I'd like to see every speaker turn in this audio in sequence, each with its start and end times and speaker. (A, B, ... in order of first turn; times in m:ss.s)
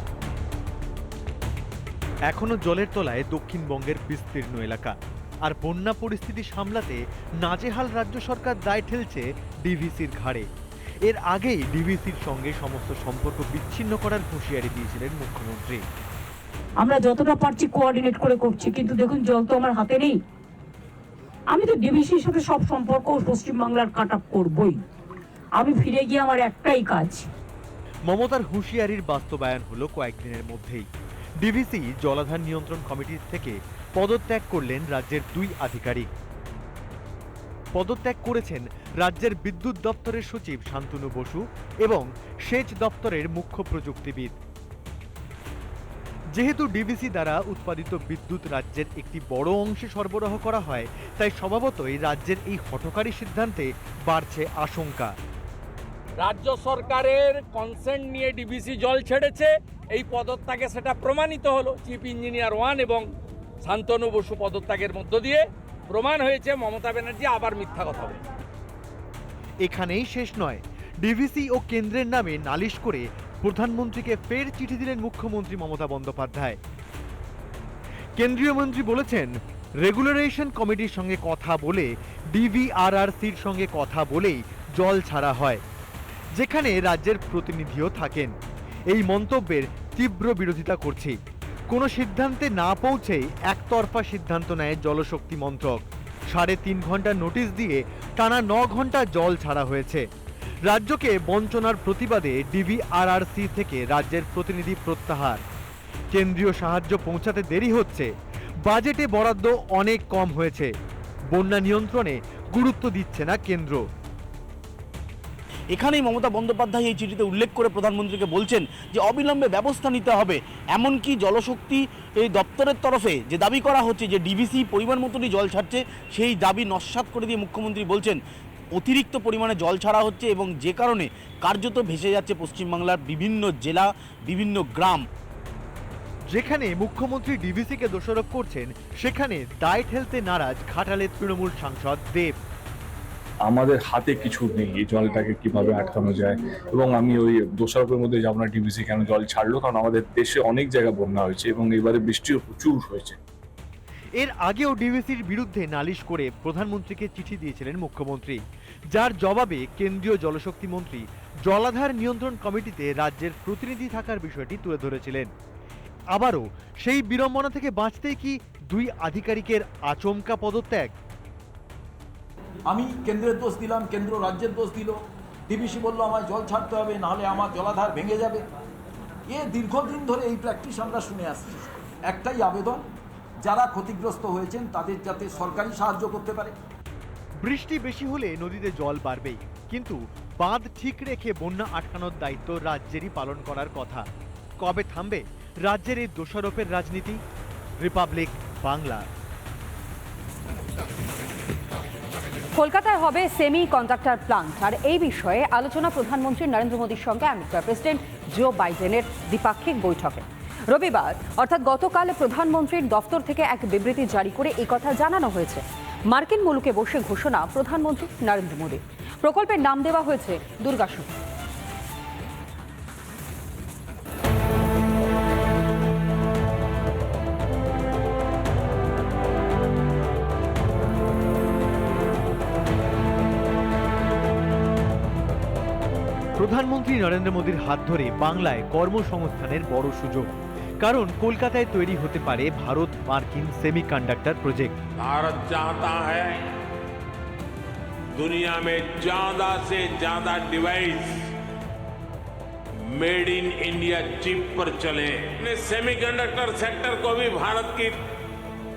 0:02.3-0:10.5 A
0:11.0-0:15.8 A
0:16.8-0:20.2 B
0:21.5-0:24.8 B
0:25.6-0:27.2 B
0:28.1-0:30.9 A
0:31.4-0:36.1 A
0:37.8-0:44.4 A
0:46.3-0:55.1 A
0:56.2-1:03.1 C
1:03.6-1:08.2 C
1:09.6-1:16.6 A
1:18.2-1:19.3 A
1:19.8-1:25.6 A
1:26.4-1:28.3 A
1:28.9-1:31.2 A
1:31.7-1:40.0 A
1:40.7-1:45.4 A
1:46.1-1:48.1 A
1:48.6-1:50.7 A
1:51.3-1:53.8 A
1:55.7-2:08.2 D
2:08.8-2:15.0 D
2:16.3-2:22.3 A
2:23.4-2:33.2 E
2:34.2-2:38.4 A
2:38.9-2:45.3 A
2:46.1-2:50.9 A
2:52.7-2:55.0 F
2:55.5-2:58.4 F
2:59.3-3:02.8 F
3:03.4-3:06.5 F
3:07.4-3:14.0 A
3:14.6-3:17.2 A
3:17.8-3:19.0 A
3:22.5-3:41.1 G
3:56.4-4:04.7 A
4:05.0-4:06.4 H
4:08.1-4:11.3 H
4:12.8-4:18.0 H